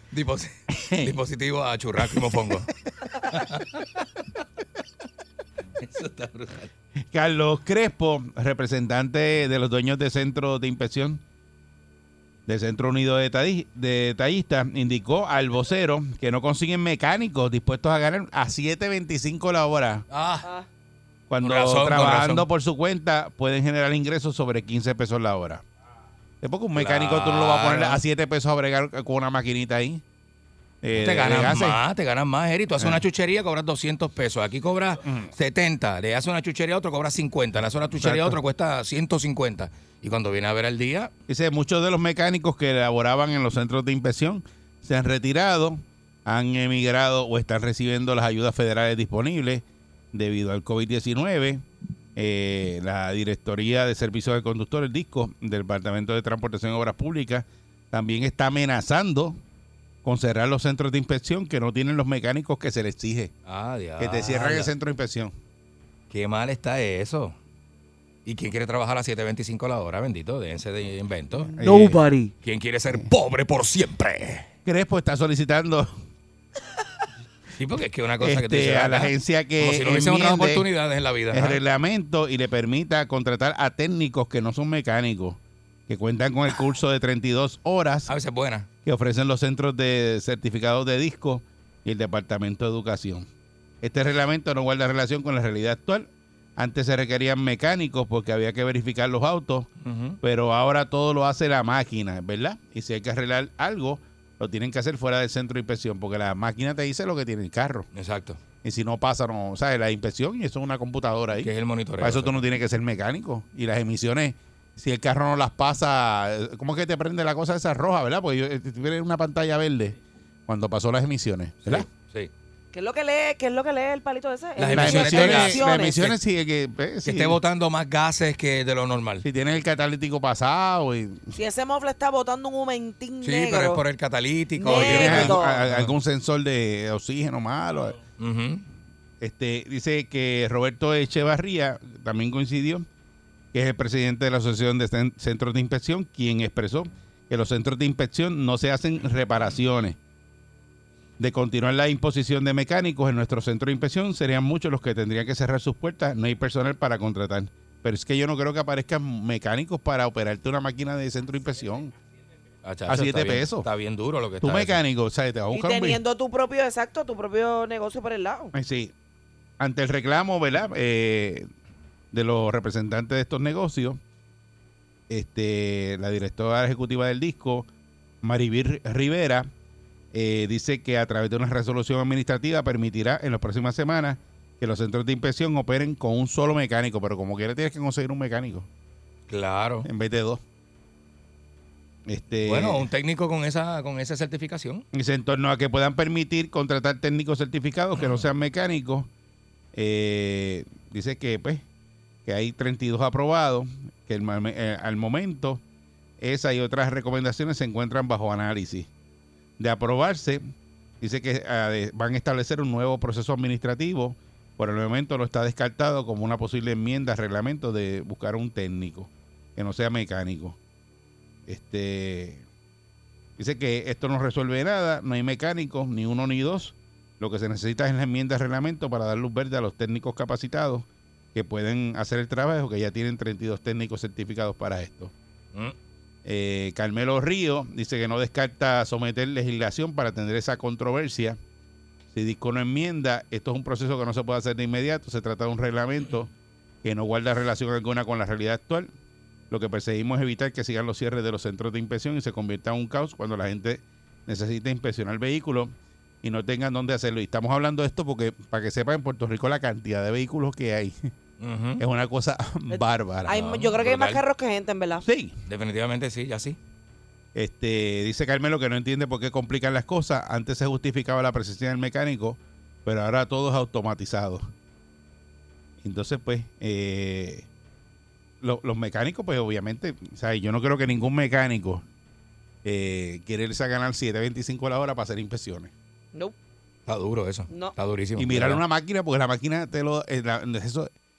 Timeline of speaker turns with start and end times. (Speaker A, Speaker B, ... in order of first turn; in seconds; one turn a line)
Speaker A: 0.1-0.5
Speaker B: 0.7-1.2
Speaker A: 1.0-2.6
Speaker B: 2.0-2.6
Speaker A: 5.8-6.7
Speaker B: 7.1-11.2
Speaker B: 12.5-20.0
Speaker A: 20.1-20.4
Speaker C: 20.4-20.7
Speaker B: 21.3-25.6
Speaker A: 21.4-22.4
Speaker B: 26.4-30.0
Speaker A: 26.7-28.0
Speaker B: 30.8-31.8
Speaker A: 30.9-41.1
Speaker B: 32.7-33.0
Speaker B: 35.0-35.3
Speaker B: 37.9-38.4
Speaker B: 41.3-51.6
Speaker B: 52.1-59.4
Speaker B: 60.0-63.3
Speaker A: 63.5-64.7
Speaker B: 64.0-65.3
Speaker A: 66.1-67.3
Speaker A: 68.2-71.5
Speaker C: 71.4-72.3
Speaker B: 71.5-72.0
Speaker A: 72.4-74.4
Speaker B: 74.6-76.0
Speaker A: 77.6-81.6
Speaker B: 78.2-80.7
Speaker B: 81.3-88.1
Speaker A: 88.1-88.7
Speaker B: 88.8-93.3
Speaker B: 93.8-107.9
Speaker A: 99.8-100.2
Speaker A: 107.9-108.4
Speaker B: 108.6-119.9
Speaker A: 111.4-112.4
Speaker B: 120.5-121.9
Speaker A: 121.6-122.3
Speaker C: 122.7-126.0
Speaker A: 124.6-126.1
Speaker B: 124.6-127.4
Speaker A: 127.1-129.2
Speaker B: 129.2-131.3
Speaker C: 131.3-133.8
Speaker A: 133.2-135.9
Speaker C: 134.6-135.7
Speaker B: 134.7-138.0
Speaker A: 138.2-138.6
Speaker B: 139.2-142.9
Speaker B: 143.5-150.0
Speaker B: 151.2-161.9
Speaker A: 162.6-164.8
Speaker B: 162.8-163.7
Speaker B: 164.4-166.0
Speaker C: 165.5-168.5
Speaker B: 168.5-168.9
Speaker B: 169.6-171.5
Speaker B: 172.1-174.0
Speaker B: 175.1-177.7
Speaker B: 178.2-179.5
Speaker B: 180.1-188.7
Speaker A: 189.3-189.9
Speaker B: 189.8-190.4
Speaker B: 192.1-192.9
Speaker A: 192.4-194.8
Speaker B: 194.9-199.1
Speaker A: 198.0-198.2
Speaker B: 199.7-201.6
Speaker B: 202.2-205.6
Speaker B: 206.2-208.9
Speaker B: 209.6-210.4
Speaker B: 211.0-220.6
Speaker B: 221.5-222.4
Speaker B: 223.4-235.1
Speaker B: 236.2-241.4
Speaker B: 242.1-246.3
Speaker B: 246.8-248.9
Speaker B: 249.5-261.1
Speaker A: 261.4-261.8
Speaker B: 261.8-263.6
Speaker C: 262.7-265.0
Speaker A: 263.4-264.2
Speaker B: 265.0-265.4
Speaker A: 265.5-266.6
Speaker B: 267.3-274.5
Speaker B: 275.8-277.5
Speaker B: 278.4-281.8
Speaker B: 282.6-285.7
Speaker A: 286.9-288.6
Speaker C: 287.5-287.7
Speaker B: 288.1-290.9